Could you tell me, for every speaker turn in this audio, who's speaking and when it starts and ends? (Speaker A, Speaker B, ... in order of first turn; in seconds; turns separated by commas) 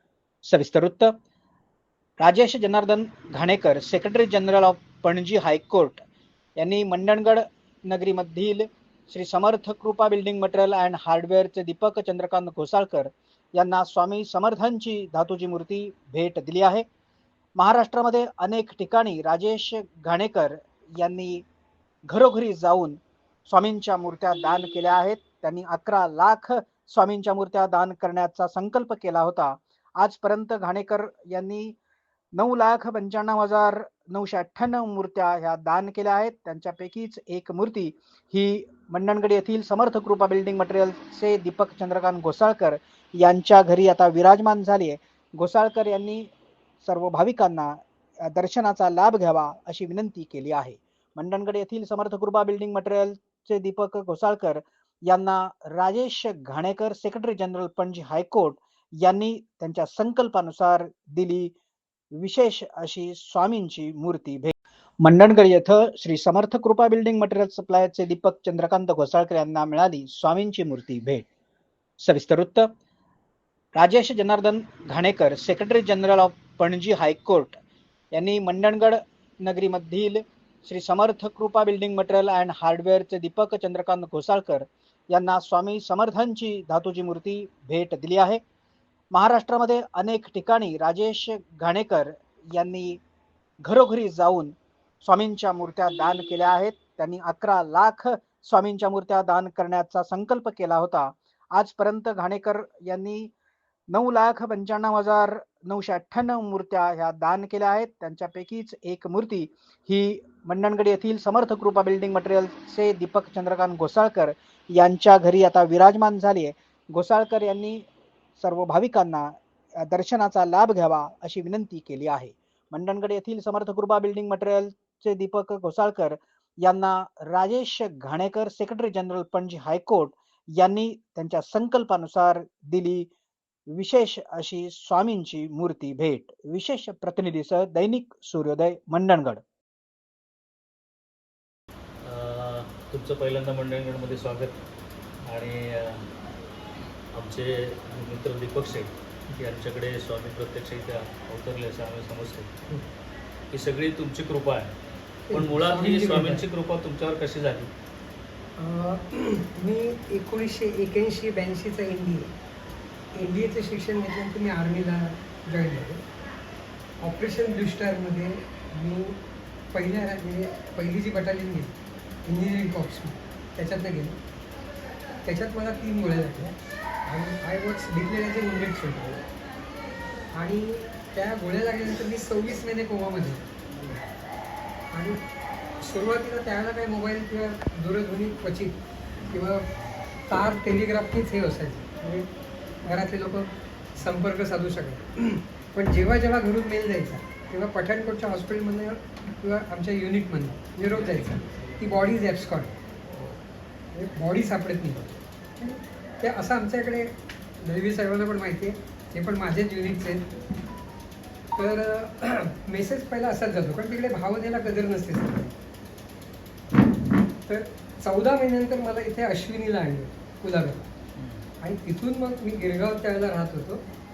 Speaker A: 0.4-1.1, Speaker A: 2.2-6.0, Speaker A: 6.6-16.8, Speaker A: 17.6-21.4, Speaker A: 22.1-31.8, Speaker A: 32.3-46.3, Speaker A: 46.8-61.5, Speaker A: 62.2-71.2, Speaker A: 72.0-72.7, Speaker A: 73.8-77.6, Speaker A: 78.1-88.4, Speaker A: 89.1-93.0, Speaker A: 93.6-103.3, Speaker A: 103.9-117.8, Speaker A: 118.4-133.1, Speaker A: 133.7-139.4, Speaker B: 142.0-144.6, Speaker B: 145.2-146.1, Speaker B: 147.1-152.5, Speaker B: 153.5-154.7, Speaker C: 155.3-156.4, Speaker B: 155.3-157.7, Speaker C: 158.6-162.3, Speaker C: 163.1-166.0, Speaker C: 167.0-169.2, Speaker C: 169.7-174.2, Speaker C: 175.2-176.6, Speaker C: 177.1-179.2, Speaker C: 180.3-183.4, Speaker C: 184.9-185.2, Speaker C: 185.8-189.7, Speaker C: 190.3-192.3, Speaker C: 192.8-202.8, Speaker B: 203.1-203.4, Speaker C: 203.9-205.1, Speaker C: 205.6-210.2, Speaker C: 211.5-215.5, Speaker C: 217.4-220.9, Speaker B: 221.2-221.5, Speaker C: 221.6-223.8